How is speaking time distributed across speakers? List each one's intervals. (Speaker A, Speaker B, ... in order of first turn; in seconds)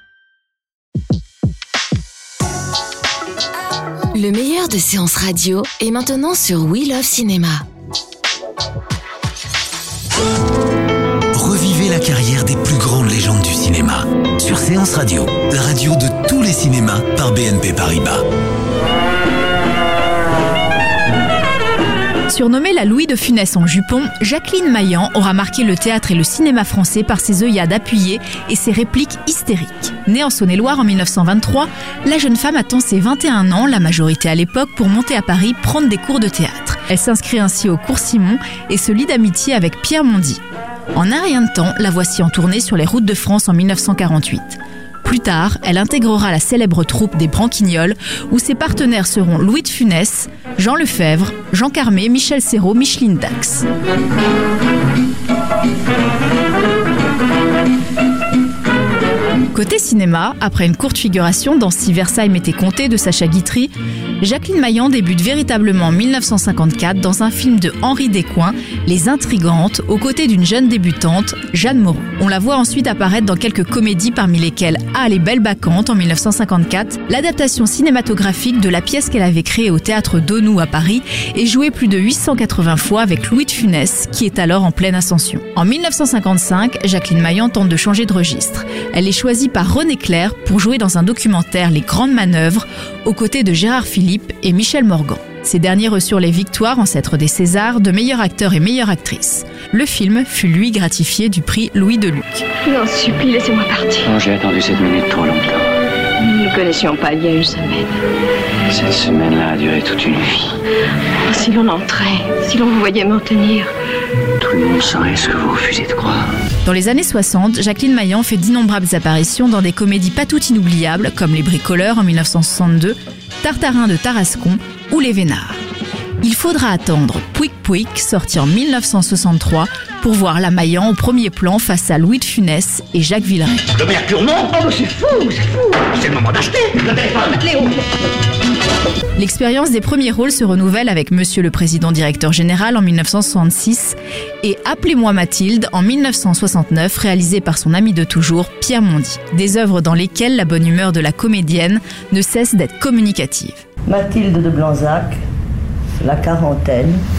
Speaker A: 4.1-7.6
Speaker B: 11.3-18.2
Speaker C: 22.3-40.4, 40.9-53.6, 59.5-102.4, 116.6-125.6, 126.2-133.6, 139.2-153.6
Speaker D: 102.7-104.1, 106.2-107.9, 111.3-113.7
Speaker E: 104.0-105.7, 108.7-110.5, 114.4-116.3
Speaker F: 133.7-137.6
Speaker G: 153.9-155.2, 156.0-157.0